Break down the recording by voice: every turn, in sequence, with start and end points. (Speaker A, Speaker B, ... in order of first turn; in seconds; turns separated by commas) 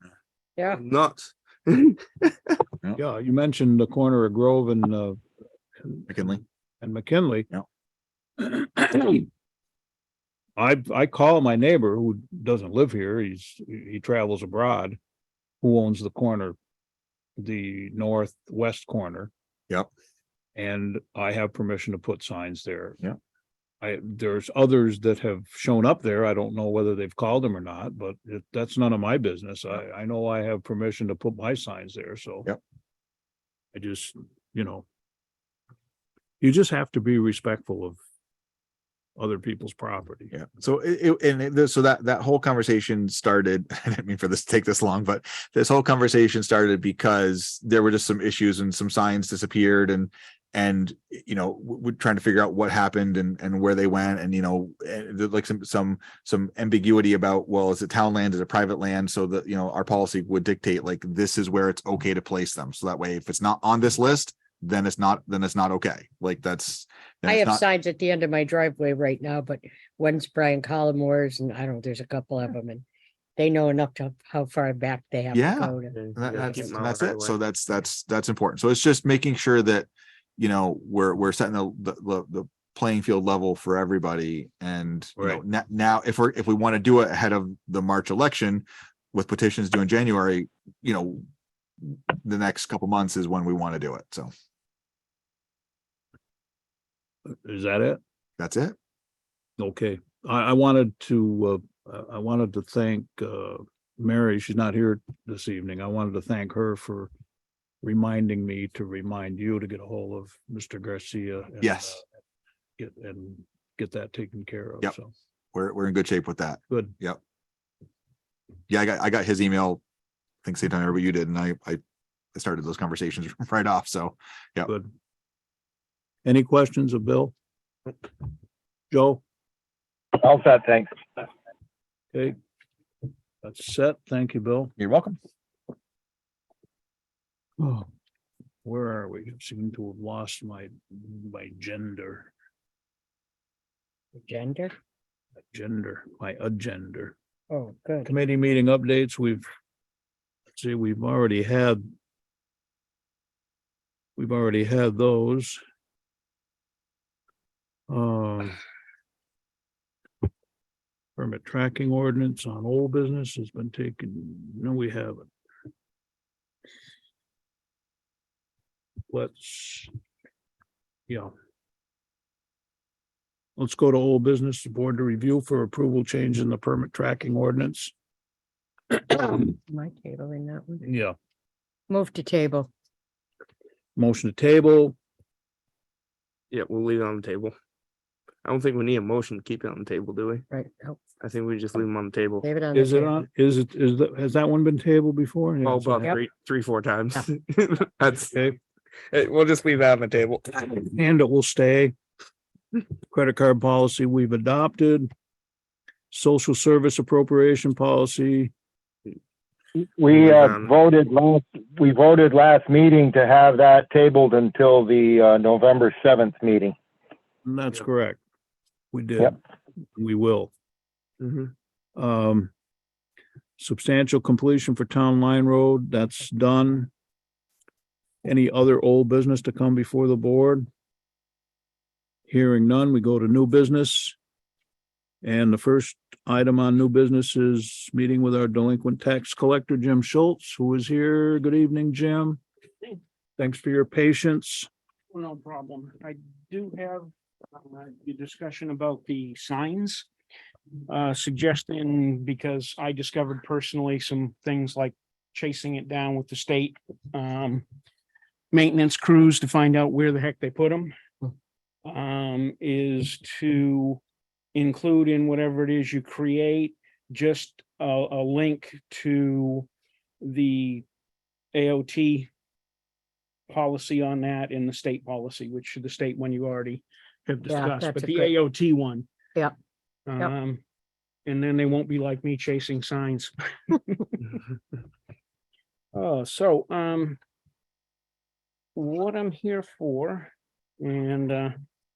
Speaker A: 0.6-0.8, Speaker B: 0.7-2.5, Speaker C: 3.0-5.2, Speaker C: 5.8-7.5, Speaker D: 6.1-6.4, Speaker C: 8.4-9.3, Speaker C: 10.6-15.0, Speaker C: 15.6-16.6, Speaker C: 17.4-19.3, Speaker C: 20.6-23.0, Speaker C: 23.8-32.5, Speaker C: 33.7-34.9, Speaker C: 36.4-38.0, Speaker C: 39.2-40.3, Speaker D: 40.3-67.6, Speaker A: 67.2-72.8, Speaker A: 73.4-76.0, Speaker D: 75.3-91.2, Speaker B: 75.9-77.4, Speaker D: 91.8-94.3, Speaker C: 97.3-98.0, Speaker D: 98.4-98.8, Speaker C: 99.6-107.1, Speaker C: 107.8-112.1, Speaker D: 111.6-112.0, Speaker C: 112.8-115.1, Speaker D: 115.5-117.2, Speaker C: 116.7-117.0, Speaker D: 118.7-119.8, Speaker D: 120.4-121.8, Speaker D: 122.3-124.7, Speaker C: 126.2-127.3, Speaker C: 128.9-129.2, Speaker E: 130.2-130.9, Speaker C: 133.4-134.7, Speaker D: 134.8-135.2, Speaker C: 137.6-137.9, Speaker C: 138.7-142.3, Speaker A: 144.2-144.8, Speaker C: 145.5-147.1, Speaker A: 147.5-148.1, Speaker C: 148.1-149.5, Speaker C: 150.6-151.8, Speaker C: 154.2-155.6, Speaker C: 157.9-158.6, Speaker C: 161.2-165.2, Speaker C: 169.1-169.9, Speaker C: 173.6-177.9, Speaker C: 179.0-179.5, Speaker A: 179.7-180.8, Speaker C: 180.8-181.2, Speaker A: 181.9-182.7, Speaker C: 184.0-185.0, Speaker B: 186.5-187.6, Speaker B: 188.4-190.5, Speaker A: 190.5-191.0, Speaker B: 191.2-192.4, Speaker A: 192.4-193.2, Speaker C: 192.7-196.1, Speaker B: 195.6-198.4, Speaker C: 198.2-198.6, Speaker B: 199.1-200.9, Speaker C: 200.9-201.9, Speaker C: 203.1-205.1, Speaker C: 206.1-208.5, Speaker E: 210.0-216.8, Speaker B: 210.1-210.7, Speaker C: 217.4-218.2, Speaker C: 218.9-219.4, Speaker C: 219.9-220.5, Speaker B: 221.2-221.5, Speaker C: 222.0-222.5, Speaker C: 223.6-226.9, Speaker C: 228.2-230.7, Speaker C: 232.3-234.2, Speaker C: 235.2-242.4, Speaker C: 243.4-244.7, Speaker F: 245.1-250.1, Speaker F: 250.9-257.7, Speaker F: 258.5-260.9, Speaker F: 261.9-264.0, Speaker F: 264.6-269.7, Speaker F: 270.2-270.9, Speaker F: 271.5-272.3, Speaker F: 273.5-279.1, Speaker A: 277.5-278.3, Speaker F: 280.1-280.6, Speaker F: 281.3-284.1, Speaker F: 285.9-287.2, Speaker F: 288.8-291.5